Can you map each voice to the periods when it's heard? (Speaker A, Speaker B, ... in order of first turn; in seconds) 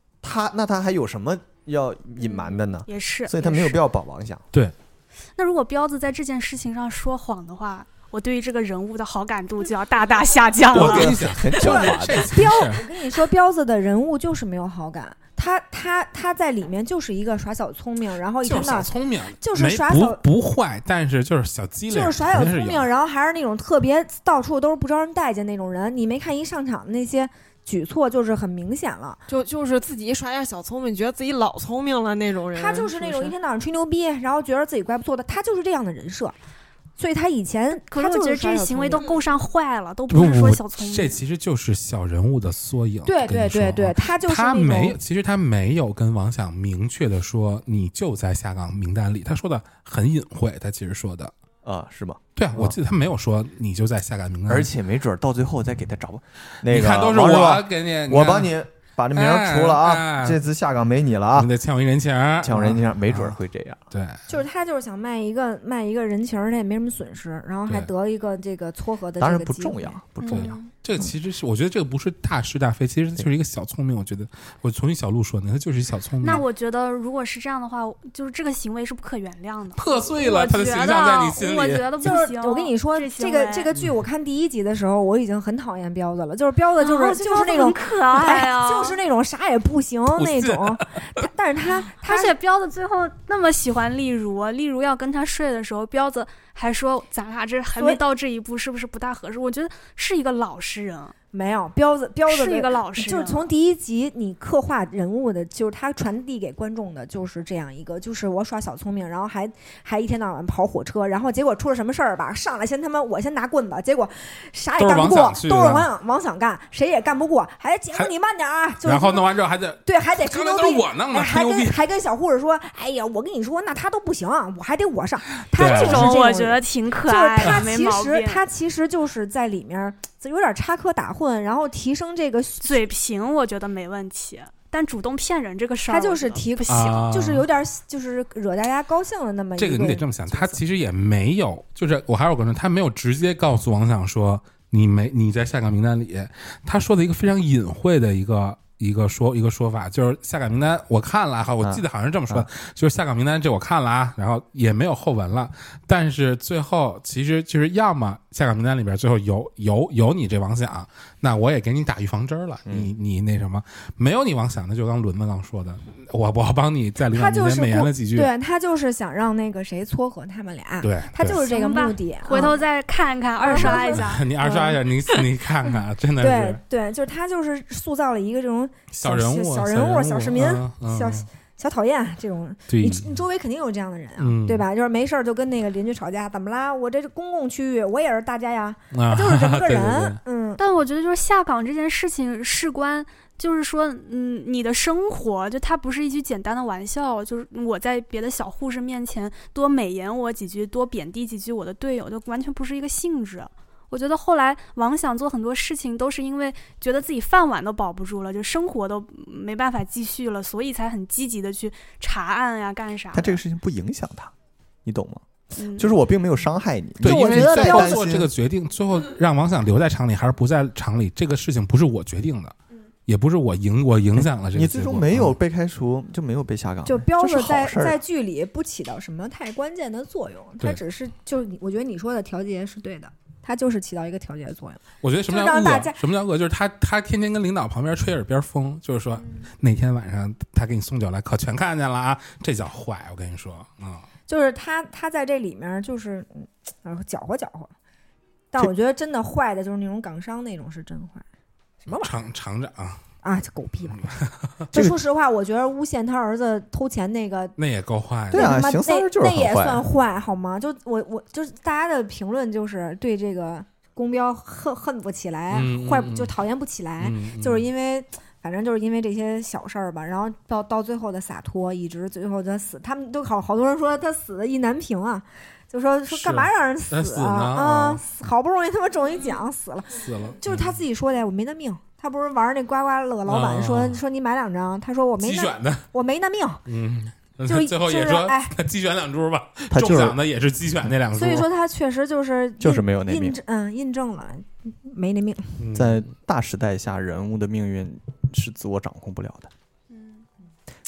Speaker A: 0.2-4.5, 10.7-12.5, 51.6-52.8, 54.5-61.5, 62.4-63.9, 69.2-70.5, 151.6-152.5, 162.7-162.9, 213.1-214.3, 214.8-218.3, 224.1-228.0, 258.3-259.8, 289.7-290.2, 292.6-293.4, 295.7-299.5
Speaker B: 2.2-3.8, 5.4-11.2, 37.9-41.1, 70.2-70.7, 76.2-83.7, 86.8-89.0, 91.9-101.1, 102.3-103.5, 125.5-128.4, 132.6-137.1, 171.3-174.3, 190.6-213.4, 215.6-215.9, 299.9-300.2
Speaker C: 10.7-12.8, 18.4-22.9, 40.1-51.3, 52.4-54.7, 56.6-58.5, 59.1-60.4, 61.3-63.4, 63.9-64.2, 70.2-76.4, 79.8-81.9, 90.2-91.0, 114.8-115.9, 118.8-121.7, 125.5-126.1, 136.7-137.5, 139.6-168.3, 170.8-171.4, 173.5-176.6, 178.9-181.3, 182.7-183.2, 184.2-184.6, 188.9-190.2, 217.0-222.6, 223.1-225.3, 235.0-244.1, 251.9-253.0, 257.6-258.6, 265.5-266.3, 267.0-267.6, 276.1-278.0, 279.9-280.7, 283.3-284.0, 285.2-285.8, 286.7-291.5, 295.6-296.0
Speaker D: 10.9-20.2, 21.9-29.2, 32.5-36.3, 37.0-39.0, 43.0-45.0, 64.3-70.0, 82.0-92.3, 101.3-119.3, 119.8-132.9, 135.9-140.6, 167.1-172.6, 173.4-174.8, 176.2-190.6, 217.0-218.0, 226.8-236.0, 244.3-247.7, 248.5-251.2, 251.8-252.1, 253.2-254.2, 254.7-257.6, 258.3-286.6, 287.4-288.5, 291.1-295.6
Speaker E: 29.3-33.3